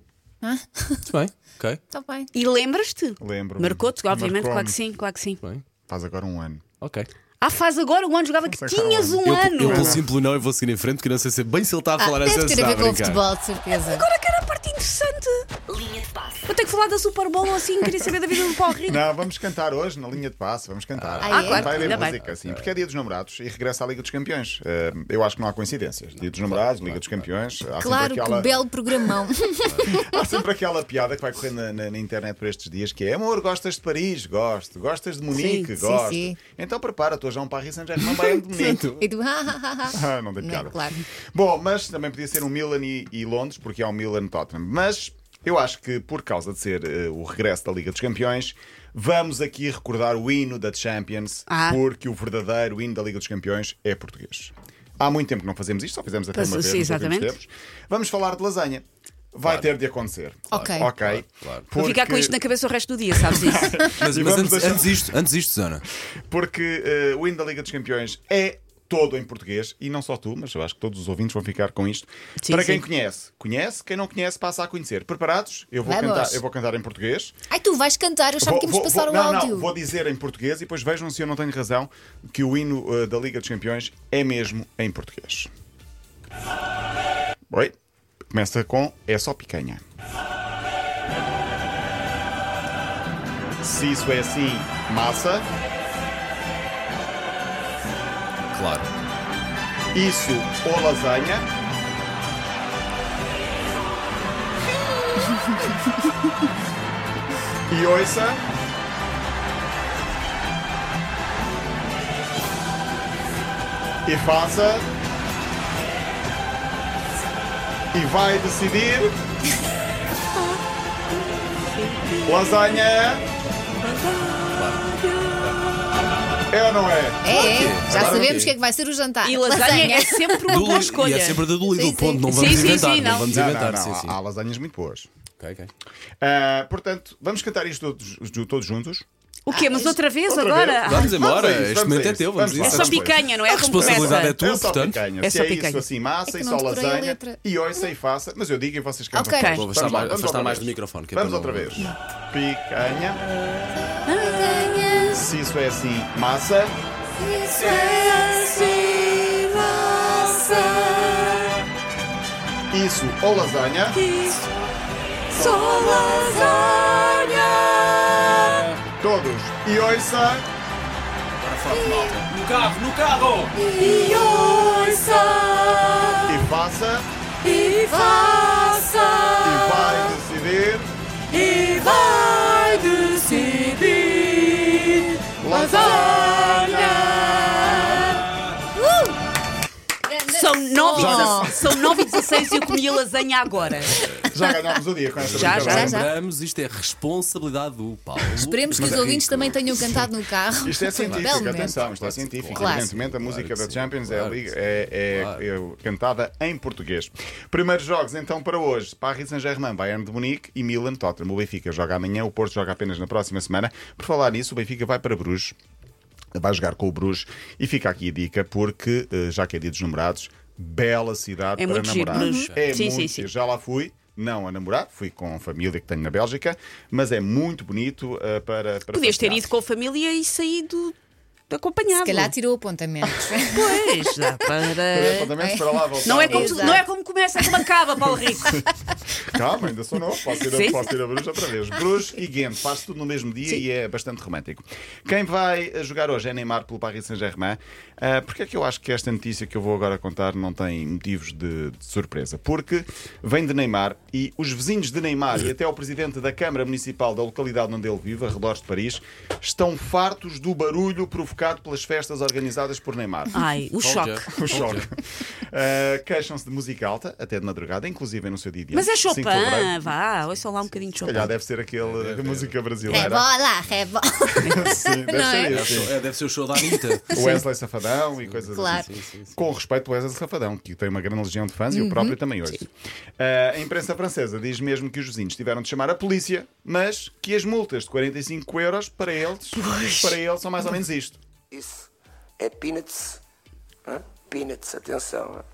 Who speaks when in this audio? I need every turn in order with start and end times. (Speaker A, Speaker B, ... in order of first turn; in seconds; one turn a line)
Speaker A: 0.4-1.0
Speaker B: 1.0-1.8
Speaker A: 1.9-2.3
Speaker C: 2.3-5.4
Speaker D: 3.2-4.8
Speaker D: 5.9-6.6
Speaker B: 6.8-7.1
Speaker C: 7.4-10.0
Speaker D: 8.4-10.1
Speaker B: 9.2-13.2
Speaker A: 12.0-14.1
Speaker C: 13.7-15.5
Speaker C: 16.4-19.0
Speaker D: 18.8-29.1
Speaker B: 20.9-22.8
Speaker A: 21.2-21.9
Speaker C: 21.3-22.2
Speaker B: 26.4-27.3
Speaker A: 27.8-30.0
Speaker D: 29.8-38.9
Speaker C: 35.3-35.7
Speaker A: 35.7-36.4
Speaker B: 38.5-39.0
Speaker A: 38.7-41.0
Speaker D: 39.9-62.3
Speaker C: 51.5-51.8
Speaker C: 56.3-57.3
Speaker B: 59.4-59.7
Speaker A: 60.5-60.9
Speaker B: 60.5-61.7
Speaker C: 61.7-63.8
Speaker D: 63.2-65.1
Speaker B: 63.8-65.8
Speaker D: 66.3-77.3
Speaker C: 72.4-72.8
Speaker A: 75.8-76.4
Speaker A: 77.5-79.7
Speaker D: 78.4-85.5
Speaker D: 88.3-89.8
Speaker D: 93.6-95.5
Speaker B: 98.5-98.9
Speaker D: 99.9-101.5
Speaker D: 107.7-108.4
Speaker D: 114.0-114.9
Speaker D: 117.9-119.2
Speaker C: 121.7-122.6
Speaker D: 122.2-123.2
Speaker C: 123.8-125.5
Speaker B: 124.5-124.8
Speaker D: 126.5-128.5
Speaker A: 127.2-130.7
Speaker B: 127.3-128.5
Speaker C: 129.2-131.5
Speaker B: 130.5-134.2
Speaker A: 131.6-133.0
Speaker C: 132.3-133.3
Speaker D: 133.1-135.1
Speaker B: 135.4-135.7
Speaker D: 136.2-139.1
Speaker C: 139.4-141.2
Speaker A: 139.5-140.0
Speaker D: 140.3-153.2
Speaker B: 140.8-145.0
Speaker C: 142.6-144.4
Speaker C: 145.2-145.8
Speaker A: 146.2-147.4
Speaker A: 149.1-149.6
Speaker C: 149.4-149.6
Speaker B: 149.5-151.9
Speaker A: 153.7-155.1
Speaker C: 154.0-155.3
Speaker D: 155.1-156.7
Speaker A: 157.2-161.2
Speaker C: 157.4-161.5
Speaker D: 162.7-164.0
Speaker C: 163.9-164.7
Speaker C: 165.3-168.6
Speaker A: 165.4-166.7
Speaker D: 169.0-170.4
Speaker B: 171.4-173.6
Speaker A: 171.7-172.2
Speaker A: 173.6-175.2
Speaker C: 173.7-176.4
Speaker D: 176.2-177.1
Speaker C: 177.4-180.1
Speaker A: 177.4-179.9
Speaker D: 179.4-180.9
Speaker C: 181.3-188.2
Speaker A: 181.3-181.8
Speaker A: 182.4-182.8
Speaker D: 185.4-188.2
Speaker A: 185.7-188.0
Speaker A: 188.8-189.1
Speaker A: 190.1-192.8
Speaker C: 190.3-194.0
Speaker D: 190.9-191.8
Speaker B: 193.6-194.3
Speaker D: 194.3-196.0
Speaker B: 195.2-199.2
Speaker C: 195.3-195.9
Speaker A: 195.4-196.1
Speaker A: 198.3-201.8
Speaker D: 198.8-200.0
Speaker D: 200.6-215.5
Speaker B: 201.0-205.4
Speaker A: 202.5-202.8
Speaker D: 216.3-229.5
Speaker C: 221.6-223.3
Speaker A: 222.1-222.5
Speaker B: 222.4-222.6
Speaker C: 228.9-230.9
Speaker C: 231.5-232.3
Speaker A: 232.0-234.5
Speaker C: 233.0-235.3
Speaker D: 234.9-236.8
Speaker A: 235.4-236.8
Speaker C: 236.0-238.6
Speaker D: 238.1-238.7
Speaker D: 239.2-263.4
Speaker C: 240.4-240.9
Speaker C: 263.3-264.5
Speaker B: 263.8-264.9
Speaker D: 264.3-269.7
Speaker C: 268.7-271.3
Speaker D: 271.0-273.3
Speaker B: 271.8-273.1
Speaker A: 272.9-275.9
Speaker C: 274.4-274.7
Speaker D: 274.5-275.9
Speaker B: 275.4-277.2
Speaker A: 276.6-277.4
Speaker D: 277.1-291.2
Speaker B: 278.2-279.4
Speaker A: 278.6-278.9
Speaker A: 281.7-282.1
Speaker C: 289.5-290.2
Speaker E: 291.5-291.9
Speaker E: 292.4-293.2
Speaker E: 293.9-295.4